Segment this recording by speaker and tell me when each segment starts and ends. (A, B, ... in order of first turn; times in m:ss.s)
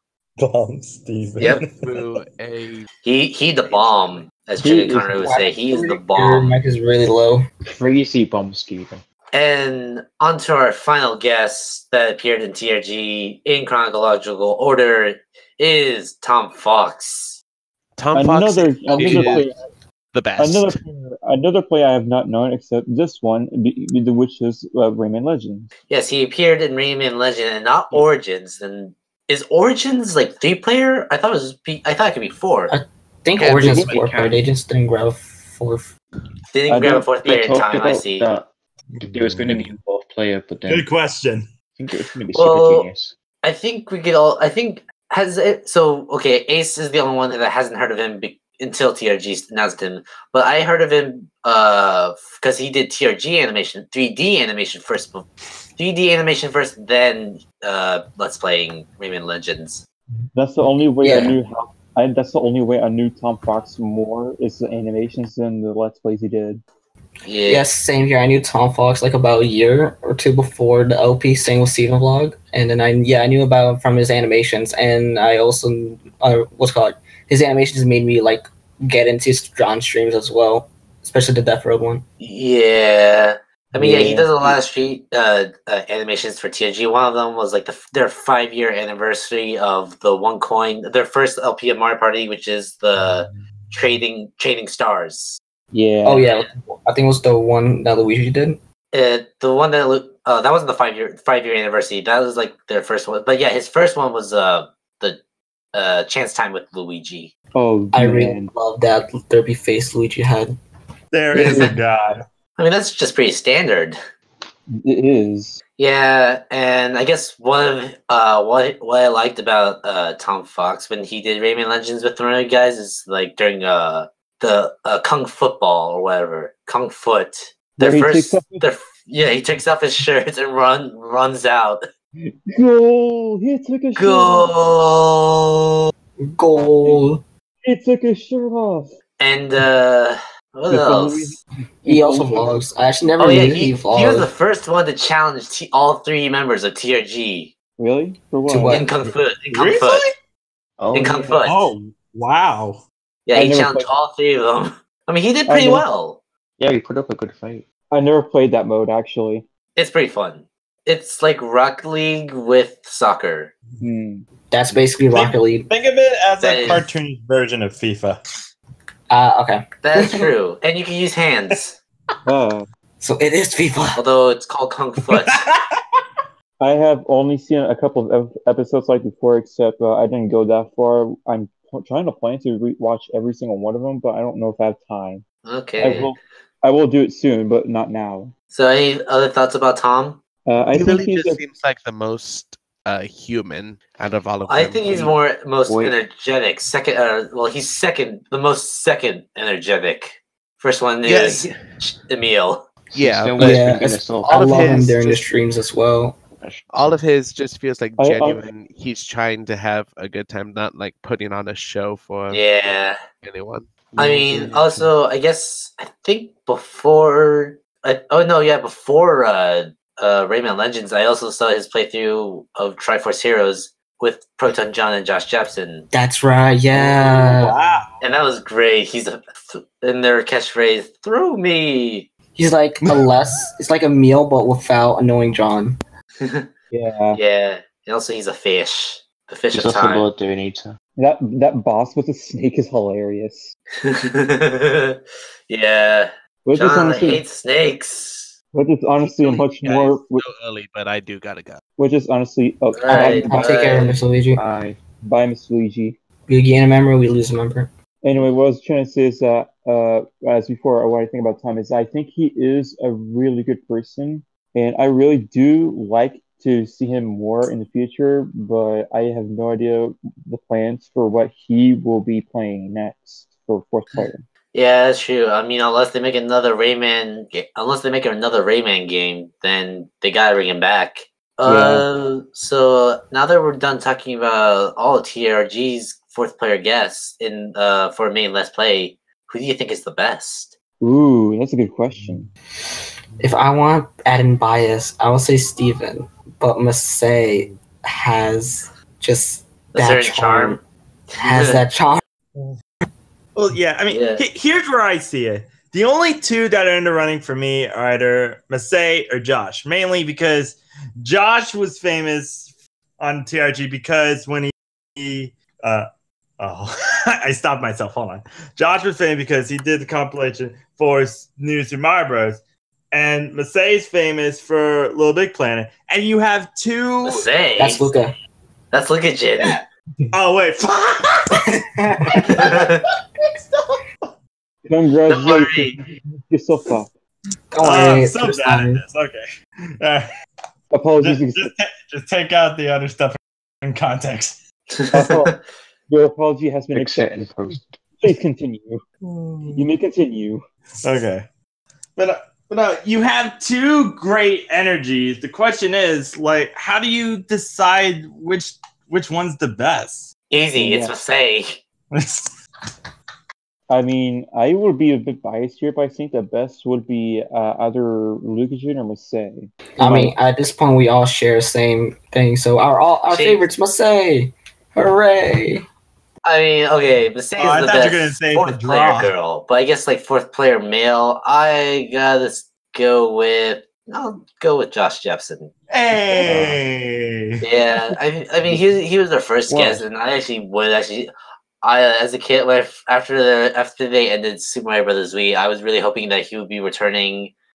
0:00.4-0:02.1 A
0:01.8-0:02.9 B
0:03.0-0:06.6 C
0:03.6-0:04.3 B
0:04.6-0:05.1 D
0:04.9-0:07.4 E
0:07.7-0:09.0 F
0:09.3-0:17.4 C
0:18.0-0:19.5 B
0:18.1-0:19.5 D
0:20.1-0:20.8 B
0:20.4-0:25.7 D
0:25.9-0:32.7 C
0:32.7-0:35.9 E
0:33.4-0:34.0 B
0:33.4-0:34.4 F
0:36.5-0:38.3 C
0:36.7-0:37.1 D
0:37.2-0:38.5 F
0:38.9-0:39.7 A
0:39.0-0:40.9 F
0:40.6-0:41.5 A
0:41.7-0:43.1 F
0:42.3-0:42.9 C
0:43.4-0:59.8 C
1:00.3-1:06.6 D
1:01.0-1:01.4 E
1:07.2-1:07.6 C
1:07.5-1:22.0 E
1:22.2-1:35.4 C
1:23.7-1:24.6 D
1:35.7-1:36.2 D
1:36.0-1:38.6 E
1:38.9-1:45.2 C
1:45.7-1:47.3 C
1:47.5-1:48.5 D
1:47.9-1:50.6 E
1:51.1-1:52.2 A
1:51.3-1:51.7 C
1:51.4-1:51.7 D
1:52.6-1:54.0 C
1:54.7-1:55.6 D
1:55.8-2:11.8 C
2:07.8-2:08.6 D
2:12.2-2:14.5 D
2:14.0-2:15.9 C
2:16.2-2:17.2 E
2:17.6-2:18.9 D
2:19.2-2:21.4 C
2:20.7-2:22.5 D
2:21.8-2:24.3 E
2:23.2-2:27.5 C
2:27.8-2:28.9 D
2:28.5-2:28.8 E
2:28.7-2:30.1 C
2:29.5-2:30.1 A
2:30.8-2:31.4 F
2:30.9-2:31.7 C
2:31.4-2:32.8 A
2:33.2-2:36.2 C
2:33.3-2:33.9 D
2:35.5-2:35.8 D
2:36.6-2:37.6 F
2:37.9-2:39.4 D
2:39.8-2:43.5 C
2:43.8-2:44.2 D
2:44.5-2:45.7 E
2:45.1-2:48.2 A
2:46.4-2:46.9 C
2:49.1-2:50.3 E
2:49.8-2:51.8 C
2:52.2-2:52.7 D
2:53.0-2:54.0 E
2:54.0-2:55.4 C
2:55.1-2:55.6 A
2:56.6-3:05.2 D
3:05.4-3:06.1 C
3:05.8-3:08.3 D
3:08.5-3:10.2 C
3:10.4-3:11.4 D
3:10.7-3:15.1 B
3:14.5-3:22.6 C
3:15.7-3:15.9 F
3:21.0-3:21.6 B
3:22.9-3:24.9 F
3:22.9-3:23.7 B
3:23.4-3:26.2 E
3:24.2-3:25.2 B
3:26.4-3:27.0 F
3:26.7-3:32.4 B
3:28.0-3:28.5 D
3:32.3-3:33.0 C
3:33.2-3:33.9 B
3:33.9-3:34.9 F
3:34.0-3:45.9 C
3:45.9-3:47.5 E
3:46.7-3:48.0 A
3:48.0-3:52.1 C
3:52.4-3:55.8 E
3:56.2-3:56.5 C
3:56.7-3:57.2 D
3:57.1-4:00.1 C
3:59.5-4:00.8 F
4:01.0-4:03.5 D
4:03.8-4:08.3 C
4:06.4-4:07.2 D
4:08.5-4:10.2 D
4:09.0-4:11.6 B
4:11.8-4:13.8 D
4:12.7-4:14.0 C
4:12.9-4:14.4 E
4:14.3-4:14.8 F
4:15.0-4:16.0 D
4:16.3-4:17.7 E
4:18.0-4:34.2 D
4:33.9-4:50.5 C
4:41.4-4:41.8 D
4:50.8-4:52.2 D
4:53.2-5:00.6 E
4:59.7-5:00.6 C
5:01.1-5:01.6 C
5:01.2-5:02.0 E
5:03.4-5:15.9 A
5:03.9-5:04.2 C
5:16.4-5:22.4 A
5:22.9-5:27.3 A
5:27.0-5:27.9 C
5:27.6-5:28.1 E
5:28.7-5:29.6 C
5:30.1-5:31.4 A
5:31.3-5:32.4 E
5:32.0-5:32.7 A
5:32.3-5:32.8 C
5:34.6-5:36.9 D
5:35.1-5:35.8 C
5:37.5-5:38.8 E
5:37.6-5:39.2 A
5:39.8-5:40.1 A
5:40.7-5:41.5 D
5:41.0-5:44.4 A
5:44.7-5:45.4 C
5:44.9-5:45.3 D
5:45.9-5:47.3 D
5:46.7-5:47.8 F
5:48.0-5:48.8 D
5:49.2-5:49.6 A
5:49.5-5:50.4 D
5:50.8-5:51.2 A
5:52.0-6:00.1 A
6:00.3-6:01.6 C
6:00.5-6:00.9 D
6:01.9-6:02.3 A
6:03.7-6:10.1 D
6:09.8-6:15.6 E
6:13.1-6:13.5 C
6:16.2-6:25.5 C
6:17.4-6:19.1 A
6:25.7-6:27.4 A
6:26.2-6:26.5 F
6:27.4-6:31.1 C
6:29.5-6:29.8 F
6:31.6-6:37.3 C